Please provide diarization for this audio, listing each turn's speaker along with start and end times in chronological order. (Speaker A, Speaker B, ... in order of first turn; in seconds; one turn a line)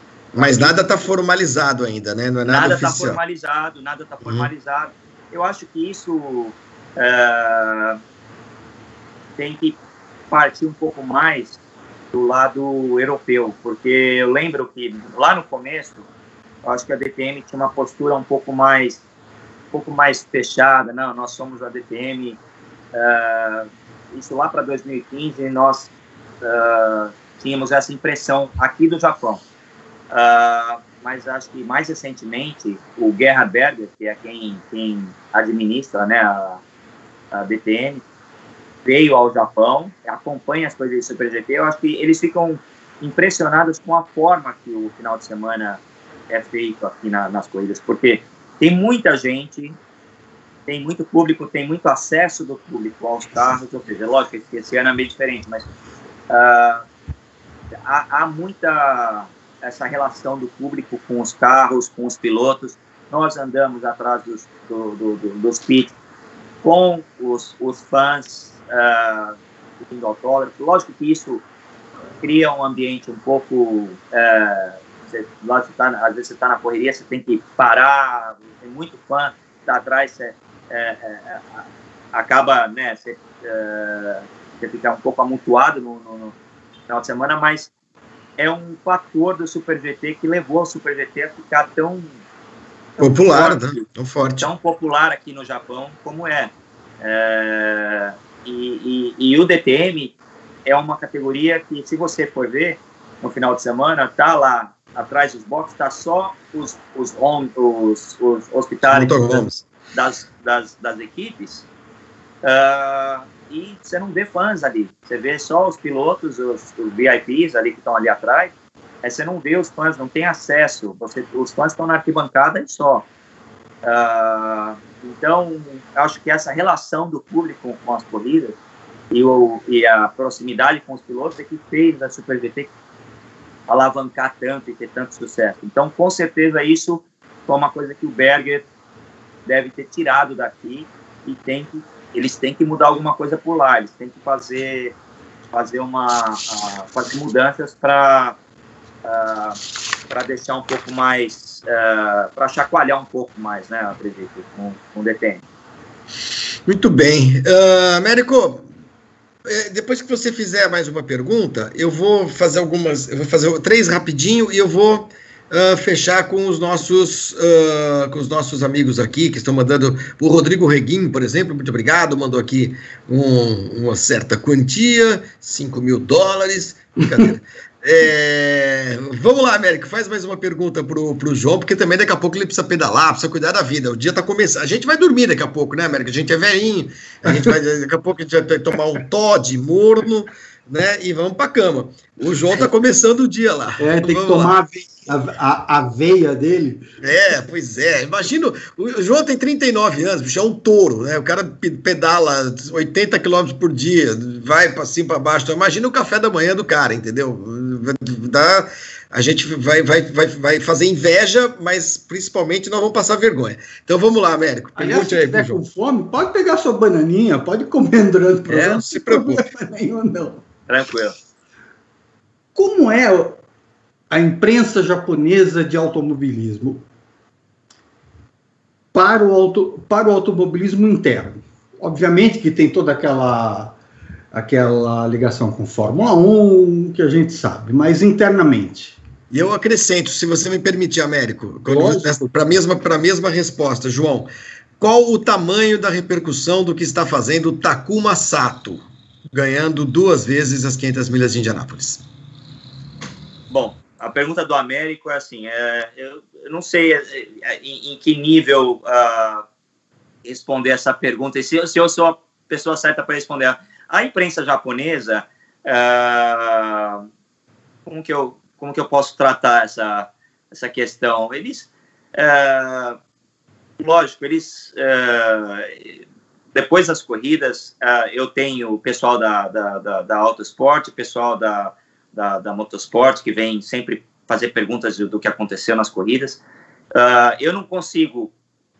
Speaker A: 0.3-3.2
Speaker B: 0.3-0.9
Speaker B: 2.4-8.0
Speaker A: 4.2-4.5
Speaker B: 9.4-9.8
Speaker B: 10.3-11.6
Speaker B: 12.1-16.0
Speaker B: 16.6-19.0
Speaker B: 19.7-22.4
Speaker B: 22.9-25.9
Speaker B: 26.4-29.4
Speaker B: 30.1-36.6
Speaker B: 37.3-38.0
Speaker B: 38.8-49.8
Speaker B: 50.7-55.6
Speaker B: 56.3-56.8
Speaker B: 57.9-65.9
Speaker B: 66.6-71.4
Speaker B: 72.2-86.3
Speaker B: 86.9-87.7
Speaker B: 88.4-92.2
Speaker B: 93.0-93.8
Speaker A: 93.0-94.5
Speaker B: 94.4-111.7
Speaker A: 108.9-109.6
Speaker B: 112.4-123.0
Speaker B: 123.8-128.6
Speaker B: 129.1-132.7
Speaker B: 133.7-138.7
Speaker B: 139.4-144.9
Speaker B: 145.5-148.4
Speaker B: 149.0-149.6
Speaker B: 150.1-155.4
Speaker A: 156.7-158.6
Speaker A: 159.4-194.5
Speaker C: 177.0-177.3
Speaker C: 187.2-187.6
Speaker C: 193.8-196.8
Speaker A: 197.0-215.6
Speaker C: 214.8-220.4
Speaker A: 218.5-219.4
Speaker B: 220.7-221.2
Speaker C: 222.5-223.4
Speaker C: 224.1-226.8
Speaker C: 228.9-233.8
Speaker C: 234.3-239.0
Speaker A: 239.3-252.0
Speaker C: 241.7-242.2
Speaker B: 253.5-259.4
Speaker B: 260.2-267.0
Speaker B: 267.9-273.0
Speaker B: 273.8-276.0
Speaker B: 276.5-286.4
Speaker B: 286.9-288.3